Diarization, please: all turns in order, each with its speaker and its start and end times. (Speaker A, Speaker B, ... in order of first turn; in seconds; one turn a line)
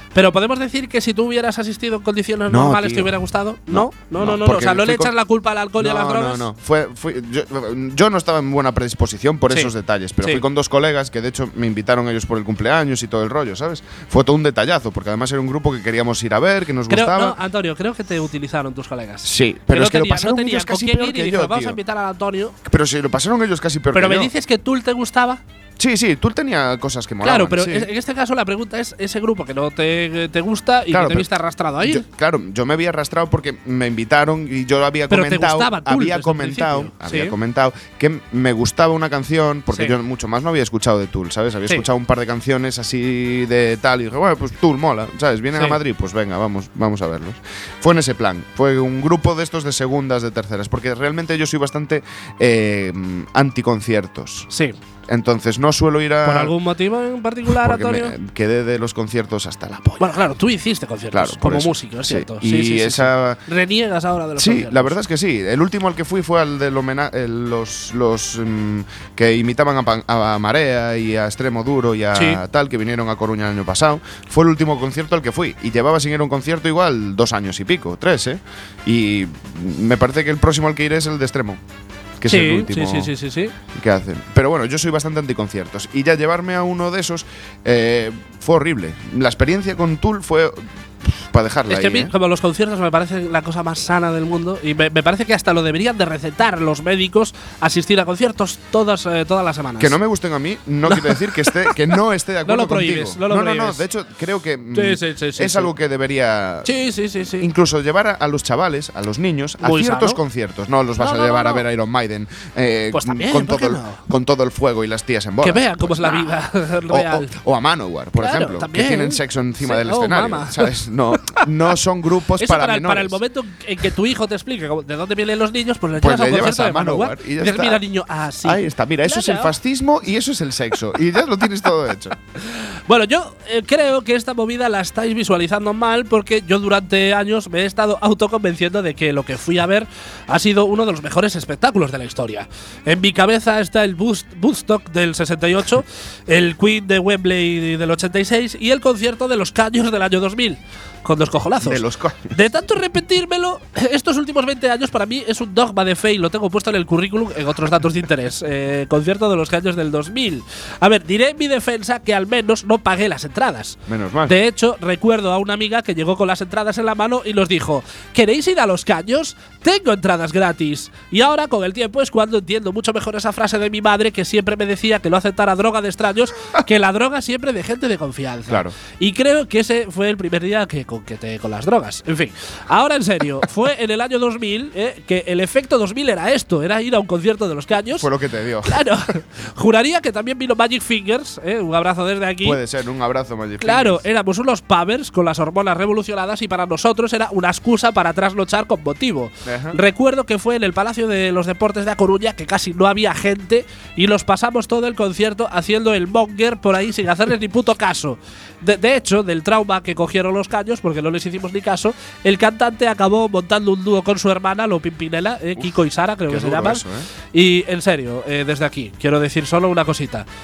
Speaker A: 0.1-6.5
Speaker B: 2.5-3.2
Speaker B: 3.7-5.1
Speaker B: 5.8-17.4
Speaker A: 9.5-10.4
Speaker A: 16.9-22.6
Speaker B: 19.2-21.8
Speaker B: 22.6-24.3
Speaker A: 23.9-25.4
Speaker B: 25.8-27.9
Speaker A: 27.2-32.0
Speaker B: 30.9-31.3
Speaker B: 31.8-54.5
Speaker A: 35.1-37.3
Speaker A: 54.5-54.8
Speaker B: 55.1-56.5
Speaker A: 56.2-58.1
Speaker B: 57.5-60.0
Speaker A: 60.0-65.0
Speaker B: 61.1-63.4
Speaker B: 64.4-81.6
Speaker A: 72.2-72.4
Speaker B: 82.2-83.1
Speaker A: 82.3-83.5
Speaker B: 83.7-92.1
Speaker A: 91.7-100.0
Speaker B: 99.8-106.7
Speaker A: 100.9-101.7
Speaker A: 102.5-103.8
Speaker A: 104.7-105.7
Speaker A: 106.7-107.5
Speaker B: 107.4-116.3
Speaker A: 109.6-110.2
Speaker A: 111.0-111.6
Speaker A: 112.9-114.0
Speaker A: 115.4-117.3
Speaker B: 116.9-123.2
Speaker A: 118.2-121.4
Speaker A: 122.4-129.5
Speaker B: 126.0-127.8
Speaker B: 128.4-132.2
Speaker A: 132.5-188.1
Speaker B: 151.6-152.4
Speaker B: 163.9-164.4
Speaker B: 178.5-178.8
Speaker B: 188.0-188.8
Speaker A: 188.7-192.6
Speaker B: 192.4-194.0
Speaker A: 193.6-220.3
Speaker B: 199.4-199.8
Speaker B: 216.3-217.1